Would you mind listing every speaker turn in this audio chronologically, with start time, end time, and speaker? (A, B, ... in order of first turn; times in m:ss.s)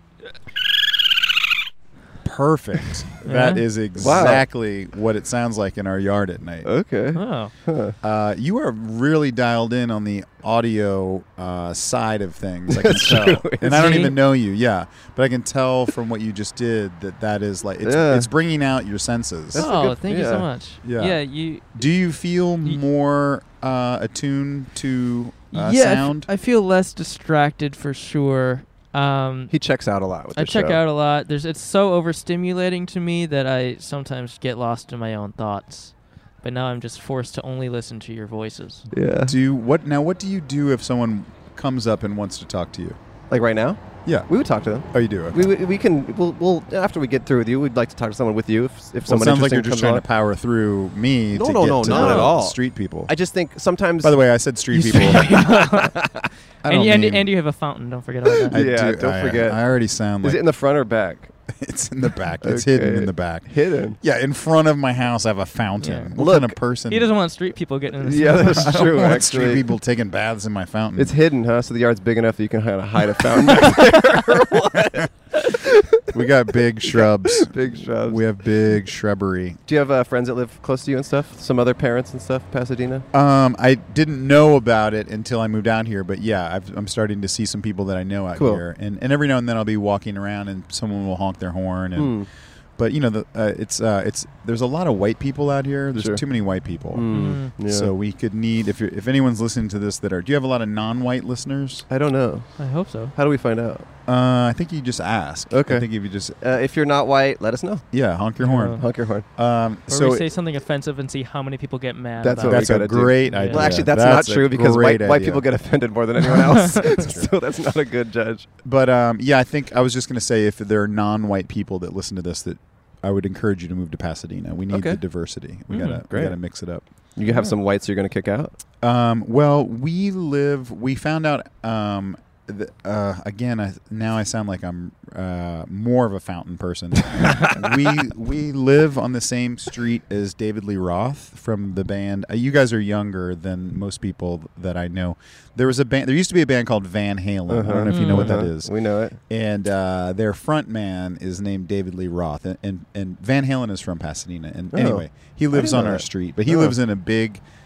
0:02.2-0:06.7 A
0:03.2-0:03.6 B
0:04.0-0:04.4 C
0:06.6-0:08.0 C
0:07.1-0:07.5 B
0:08.0-0:19.7 A
0:12.7-0:14.0 C
0:13.6-0:14.2 B
0:17.8-0:18.3 C
0:19.5-0:20.5 C
0:19.5-0:21.6 B
0:20.8-0:21.2 A
0:21.7-0:26.3 A
0:25.5-0:29.5 B
0:29.5-0:30.8 C
0:30.3-0:38.8 B
0:38.9-0:39.4 C
0:39.3-0:43.0 A
0:43.3-0:50.1 C
0:44.9-0:45.5 A
0:49.0-0:53.1 A
0:51.3-0:54.2 C
0:51.8-0:52.4 B
0:54.0-0:55.4 A
0:54.7-0:55.9 B
0:55.0-0:56.3 C
0:56.6-0:57.3 A
0:56.6-0:58.6 B
0:58.5-1:00.4 A
0:58.5-0:59.6 C
1:00.2-1:01.3 C
1:01.5-1:03.5 A
1:02.4-1:04.0 C
1:04.0-1:07.1 A
1:05.8-1:06.1 B
1:06.2-1:06.6 C
1:06.9-1:09.1 B
1:08.0-1:09.6 C
1:08.3-1:11.1 A
1:11.0-1:16.2 C
1:16.1-1:19.6 A
1:16.9-1:18.2 C
1:19.6-1:23.0 C
1:23.1-1:32.2 A
1:28.3-1:28.6 C
1:32.0-1:32.3 C
1:32.8-1:41.8 A
1:36.0-1:36.2 C
1:36.9-1:37.9 C
1:37.1-1:37.5 B
1:41.9-1:42.5 C
1:42.6-1:43.1 B
1:43.0-1:43.9 C
1:44.1-1:46.4 A
1:45.5-1:45.8 C
1:46.4-1:47.8 C
1:47.9-1:48.8 A
1:48.4-1:48.8 B
1:48.7-1:49.3 C
1:49.4-1:50.3 A
1:49.9-1:53.8 B
1:52.2-1:58.5 C
1:52.4-1:55.4 A
1:56.2-1:57.3 A
1:56.4-1:57.0 B
1:58.6-2:06.8 A
2:04.7-2:05.0 C
2:05.7-2:06.0 B
2:06.1-2:06.4 C
2:07.2-2:08.5 C
2:08.8-2:28.7 A
2:17.1-2:17.7 C
2:27.5-2:29.2 C
2:27.8-2:28.4 B
2:29.3-2:37.4 A
2:34.7-2:36.7 C